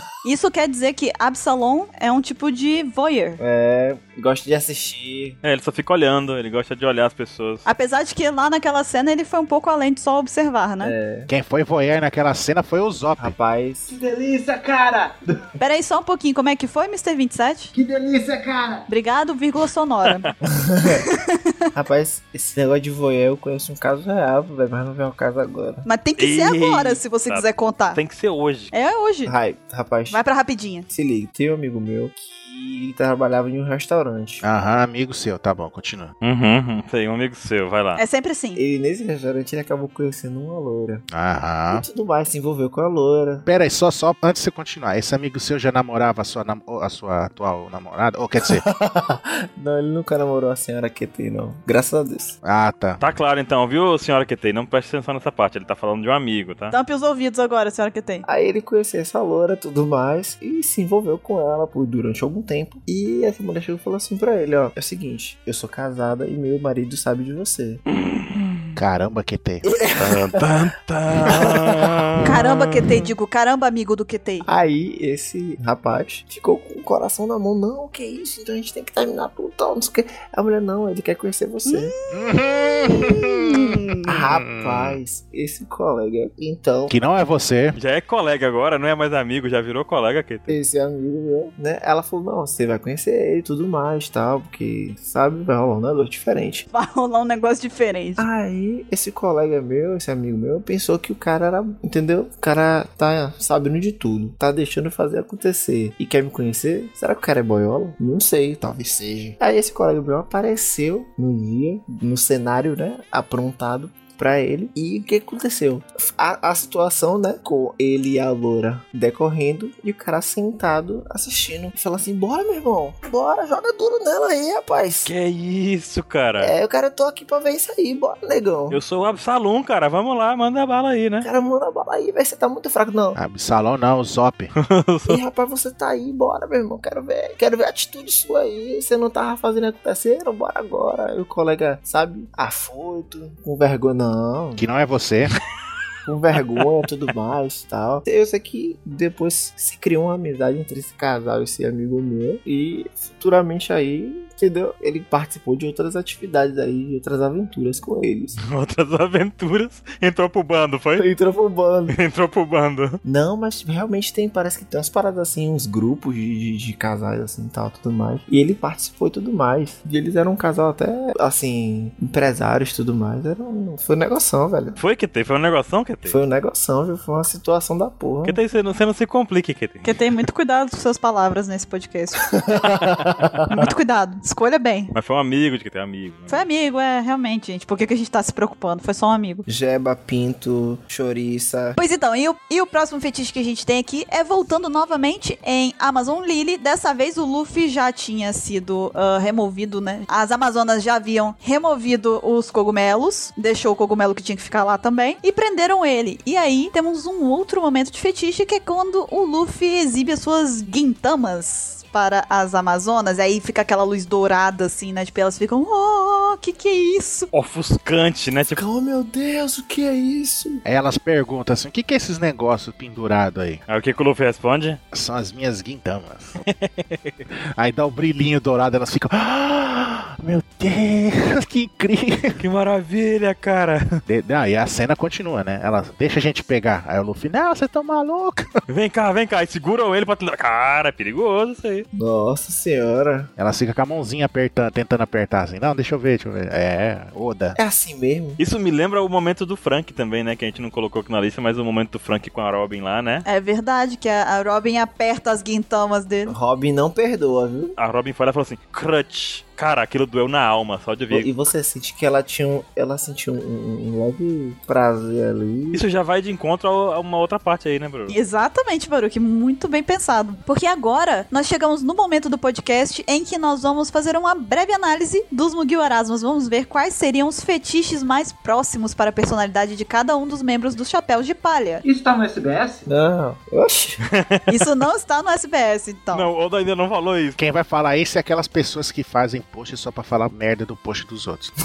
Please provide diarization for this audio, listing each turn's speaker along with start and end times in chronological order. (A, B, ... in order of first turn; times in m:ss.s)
0:00.2-0:03.4 A
0:03.4-0:05.4 B
0:05.4-0:07.6 C
0:07.6-0:10.9 A
0:10.8-0:11.3 B
0:11.3-0:13.3 D
0:13.2-0:13.9 B
0:13.9-0:15.4 E
0:15.6-0:17.7 A
0:17.7-0:18.9 E
0:18.9-0:20.3 A
0:20.5-0:21.0 B
0:21.0-0:21.3 A
0:21.7-0:25.8 B
0:25.8-0:28.0 A
0:26.2-0:28.7 C
0:28.7-0:29.3 A
0:29.2-0:30.2 B
0:30.1-0:30.9 A
0:30.9-0:34.4 B
0:34.4-0:36.1 D
0:36.2-0:38.0 C
0:38.0-0:38.6 A
0:38.6-0:41.0 B
0:41.1-0:41.8 D
0:41.7-0:43.4 B
0:43.4-0:48.6 D
0:48.4-0:52.4 B
0:52.4-0:53.0 D
0:53.0-0:56.7 C
0:56.7-0:58.2 A
0:58.2-1:07.8 B
1:07.9-1:08.8 C
1:08.8-1:09.6 D
1:09.6-1:10.4 B
1:10.0-1:13.0 C
1:11.3-1:11.9 B
1:12.2-1:14.4 A
1:14.4-1:21.9 B
1:21.7-1:22.1 A
1:22.1-1:23.6 D
1:23.0-1:23.6 A
1:24.0-1:26.9 B
1:24.3-1:25.0 D
1:26.9-1:27.8 D
1:27.8-1:30.6 C
1:30.5-1:36.6 B
1:36.7-1:38.2 A
1:38.2-2:05.1 B
2:05.0-2:06.5 C
2:06.4-2:08.8 B
2:08.7-2:11.3 C
2:11.2-2:13.2 B
2:13.1-2:14.5 D
2:14.6-2:15.2 C
2:15.0-2:24.6 B
2:24.6-2:25.3 D
2:26.0-2:38.4 B
2:38.4-2:41.1 C
2:41.0-2:42.0 B
2:41.9-2:43.0 C
2:43.0-2:54.8 B
2:54.8-2:56.2 C
2:56.0-2:58.4 B
2:58.2-2:59.9 C
2:59.8-3:02.2 A
3:02.4-3:03.5 B
3:03.5-3:04.9 A
3:04.9-3:06.4 C
3:06.3-3:09.4 A
3:09.4-3:11.8 B
3:11.8-3:37.3 A
3:37.3-3:38.6 C
3:38.5-3:40.6 B
3:40.6-3:43.6 D
3:43.7-3:44.8 C
3:44.9-3:46.4 D
3:46.4-3:47.2 C
3:47.5-3:52.4 D
3:52.4-3:54.0 C
3:54.1-3:58.4 D
3:58.7-4:01.8 C
4:01.9-4:03.3 B
4:03.4-4:07.6 D
4:07.6-4:08.4 B
4:08.4-4:13.2 C
4:13.2-4:16.3 A
4:16.3-4:17.8 B
4:17.8-4:21.3 C
4:21.1-4:25.8 B
4:25.7-4:28.1 C
4:28.1-4:41.8 A
4:41.8-4:42.9 E
4:42.9-4:44.0 B
4:44.1-4:44.5 C
4:44.5-4:46.3 A
4:46.1-4:47.4 C
4:47.4-4:51.5 D